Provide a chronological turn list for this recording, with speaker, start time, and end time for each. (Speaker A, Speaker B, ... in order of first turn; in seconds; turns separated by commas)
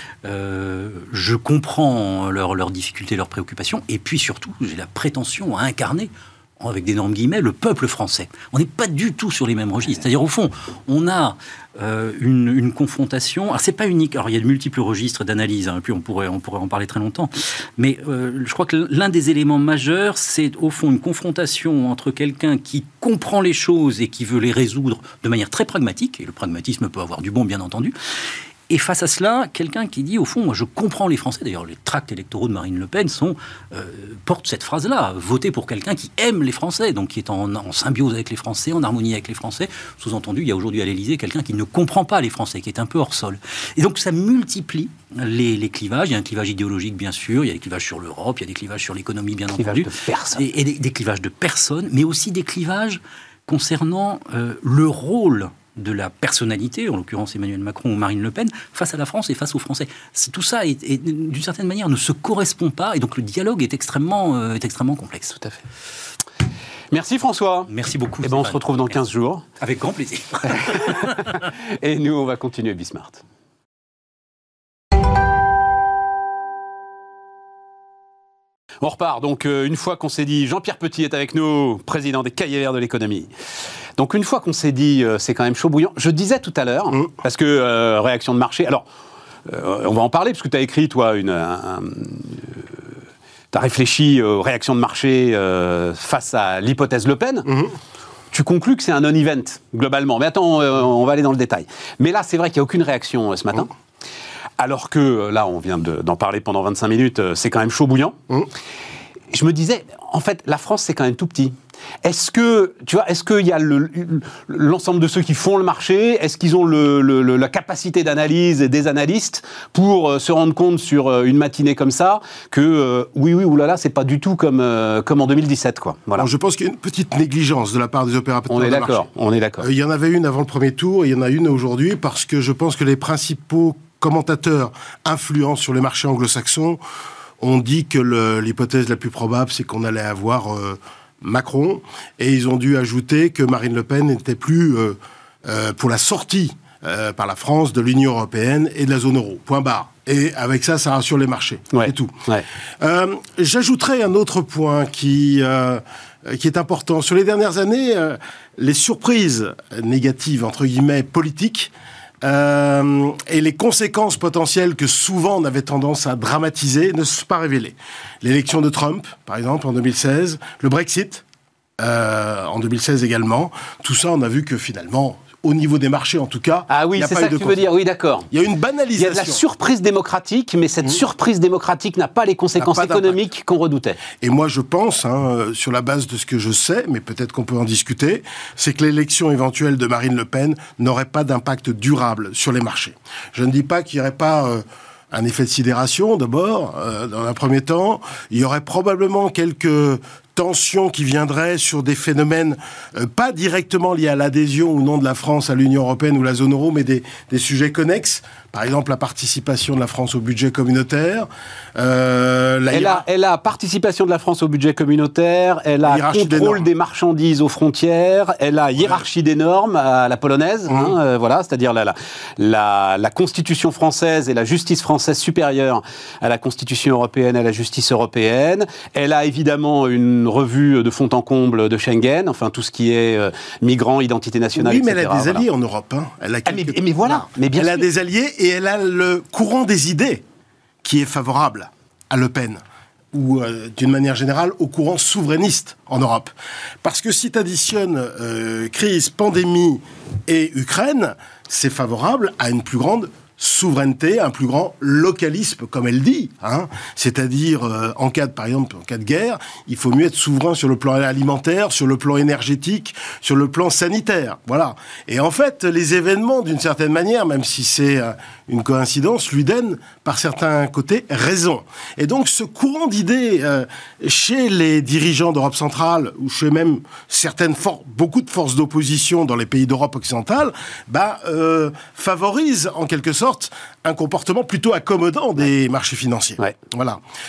Speaker A: 0.2-27.9, Speaker A: 28.7-65.5, Speaker B: 49.5-50.5, Speaker B: 66.9-67.7, Speaker A: 67.7-69.0, Speaker B: 68.2-69.5, Speaker A: 69.6-71.3, Speaker B: 70.5-73.2, Speaker B: 78.8-83.3, Speaker B: 84.0-88.8, Speaker B: 89.4-92.9, Speaker B: 93.5-97.5, Speaker C: 97.5-97.7, Speaker B: 98.3-103.7, Speaker B: 104.6-108.2, Speaker B: 109.3-126.3, Speaker C: 126.2-129.1, Speaker B: 128.5-129.7, Speaker C: 129.6-136.8, Speaker C: 137.4-152.2, Speaker B: 151.7-152.4, Speaker C: 152.8-161.7, Speaker C: 162.2-171.2, Speaker C: 171.8-177.6, Speaker B: 176.7-178.3, Speaker C: 178.3-179.4, Speaker B: 179.0-184.0, Speaker C: 182.6-183.2, Speaker C: 184.2-213.0, Speaker B: 212.7-235.4, Speaker C: 215.8-216.7, Speaker C: 220.7-220.9, Speaker C: 234.6-240.2, Speaker B: 236.4-237.9, Speaker C: 240.8-242.6, Speaker C: 243.1-246.3, Speaker C: 246.8-287.0